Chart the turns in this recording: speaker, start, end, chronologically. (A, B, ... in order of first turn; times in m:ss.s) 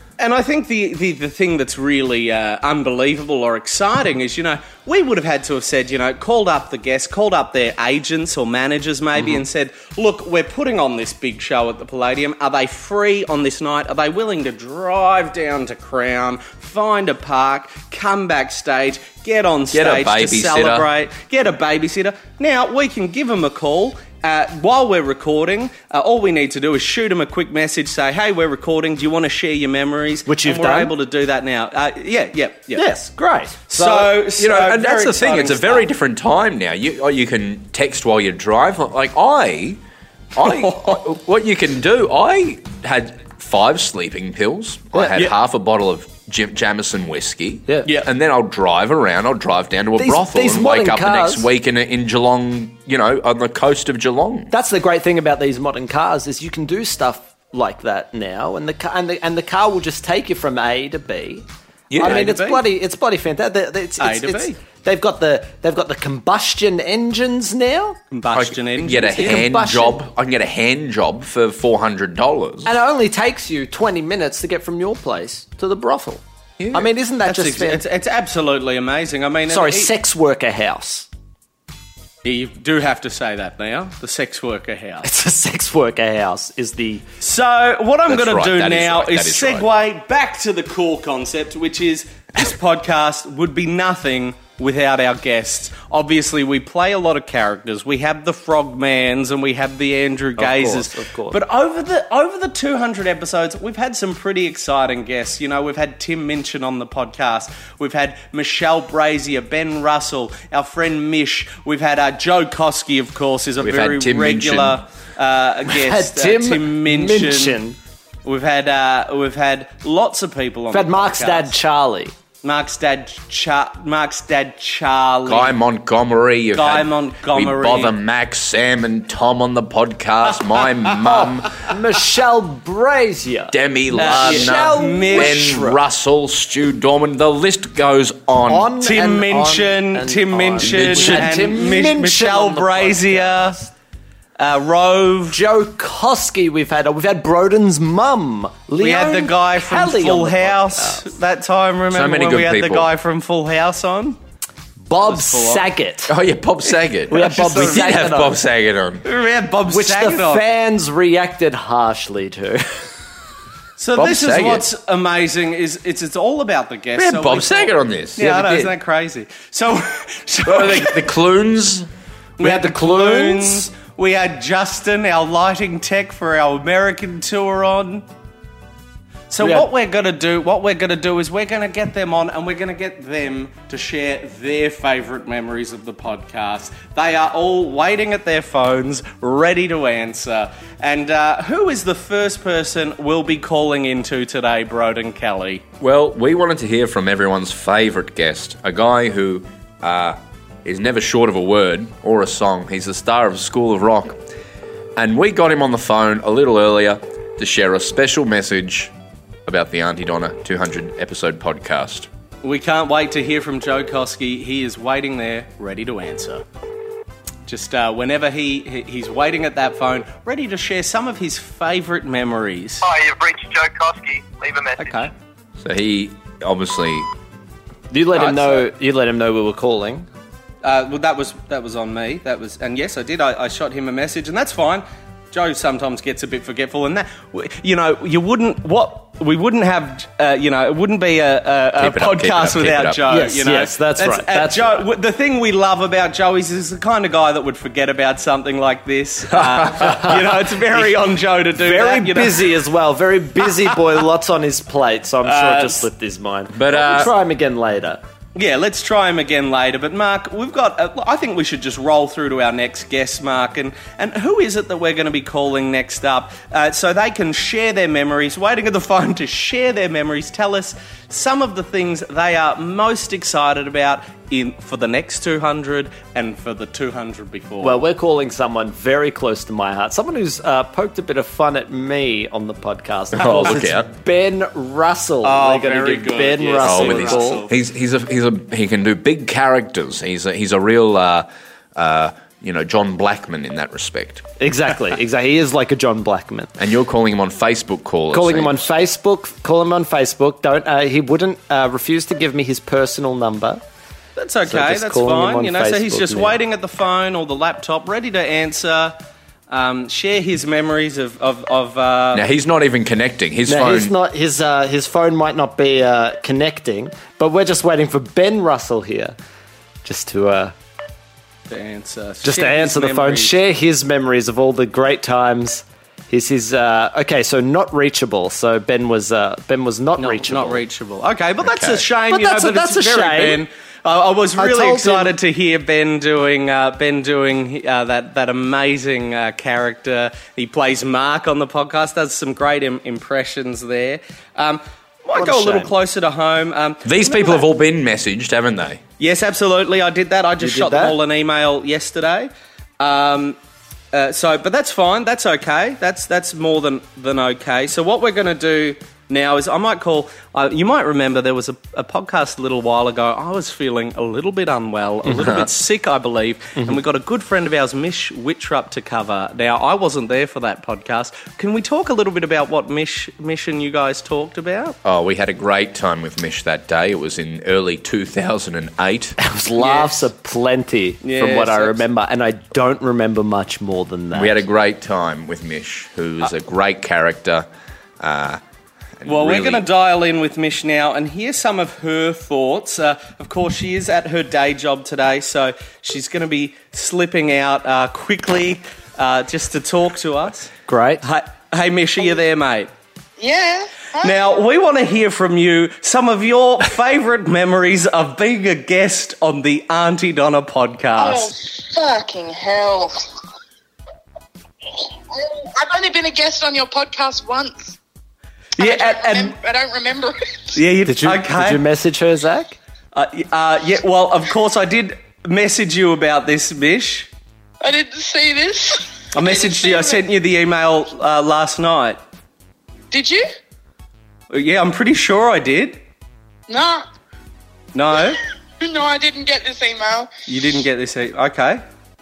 0:00.2-0:32.9 A
0:19.7-0:20.9 B
0:30.2-0:30.9 C
0:32.7-0:34.1 C
0:33.7-0:35.8 A
0:34.4-0:39.8 B
0:40.3-0:54.5 B
0:40.4-0:41.0 A
0:44.9-0:45.3 C
0:47.7-0:47.9 C
0:50.0-0:51.5 C
0:54.5-1:01.4 C
1:01.9-1:02.3 B
1:02.0-1:08.0 C
1:02.0-1:02.6 A
1:04.0-1:04.6 A
1:08.1-1:09.4 A
1:08.3-1:12.7 B
1:09.1-1:10.0 C
1:12.6-1:17.8 C
1:16.6-1:16.9 B
1:17.2-1:19.9 A
1:19.5-1:21.1 C
1:22.2-1:25.1 A
1:25.0-1:27.0 C
1:27.2-1:57.6 A
1:28.1-1:29.7 B
1:40.4-1:41.4 C
1:53.6-1:54.8 B
1:55.7-1:57.8 C
1:58.2-2:01.6 A
2:00.7-2:02.1 C
2:02.4-2:05.5 A
2:05.2-2:11.7 B
2:06.5-2:07.9 A
2:11.0-2:15.8 C
2:13.5-2:18.7 B
2:14.0-2:15.4 A
2:18.4-2:23.7 C
2:18.8-2:23.6 A
2:20.6-2:21.6 B
2:24.4-2:25.4 A
2:25.3-2:31.1 C
2:28.8-2:34.2 A
2:31.9-2:32.9 B
2:34.8-2:36.2 C
2:35.0-2:35.7 A
2:36.1-2:39.0 B
2:37.1-2:38.4 C
2:37.1-2:37.8 A
2:39.0-2:40.4 A
2:39.7-2:42.9 C
2:43.8-2:51.0 A
2:44.0-2:44.6 B
2:47.0-2:48.7 B
2:50.4-2:51.9 B
2:52.4-2:58.0 A
2:52.4-2:53.7 C
2:59.3-3:15.6 A
2:59.4-2:59.7 C
3:15.8-3:24.2 B
3:25.0-3:28.9 B
3:29.4-3:32.1 B
3:32.4-3:36.4 A
3:37.5-3:42.8 A
3:42.8-3:45.0 D
3:44.8-3:45.1 A
3:45.6-3:47.1 B
3:47.9-3:50.1 C
3:48.1-3:48.7 A
3:50.6-4:12.5 A
4:01.8-4:03.0 B
4:03.1-4:04.8 C
4:10.0-4:10.9 C
4:11.6-4:18.0 C
4:15.2-4:15.9 A
4:16.5-4:17.1 B
4:18.3-4:37.8 A
4:37.6-4:47.4 C
4:43.1-4:43.9 B
4:45.2-4:47.6 A
4:46.6-4:54.2 B
4:54.4-4:56.5 C
4:56.6-4:58.7 B
4:58.1-5:03.6 C
5:04.2-5:09.0 A
5:04.4-5:06.4 C
5:09.5-5:12.2 A
5:12.1-5:13.9 B
5:13.4-5:19.2 C
5:19.8-5:20.5 C
5:21.5-5:23.3 A
5:22.2-5:30.6 C
5:30.0-5:47.4 A
5:31.4-5:31.8 B
5:32.0-5:33.4 C
5:34.4-5:35.2 C
5:45.1-5:45.7 C
5:46.8-5:48.8 B
5:49.0-5:53.4 A
5:50.4-5:51.0 C
5:53.9-6:14.8 A
6:05.0-6:05.3 C
6:14.8-6:19.2 B
6:19.2-6:24.4 C
6:19.6-6:20.1 A
6:21.0-6:21.8 A
6:24.1-6:27.5 B
6:28.0-6:28.4 B
6:29.0-6:29.7 B
6:29.0-6:40.5 A
6:40.7-6:41.0 C
6:41.0-6:42.7 A
6:43.2-6:44.3 E
6:44.0-6:51.3 A
6:51.0-6:53.0 E
6:54.8-6:57.8 E
6:58.6-7:00.2 E
6:58.6-6:59.4 A
7:00.5-7:01.6 A
7:00.8-7:02.6 C
7:02.9-7:07.1 A
7:07.6-7:10.0 E
7:09.1-7:12.0 A
7:12.9-7:13.2 E
7:14.3-7:15.8 A
7:16.5-7:16.8 E
7:17.7-7:18.2 A
7:18.0-7:20.1 E
7:20.3-7:21.6 A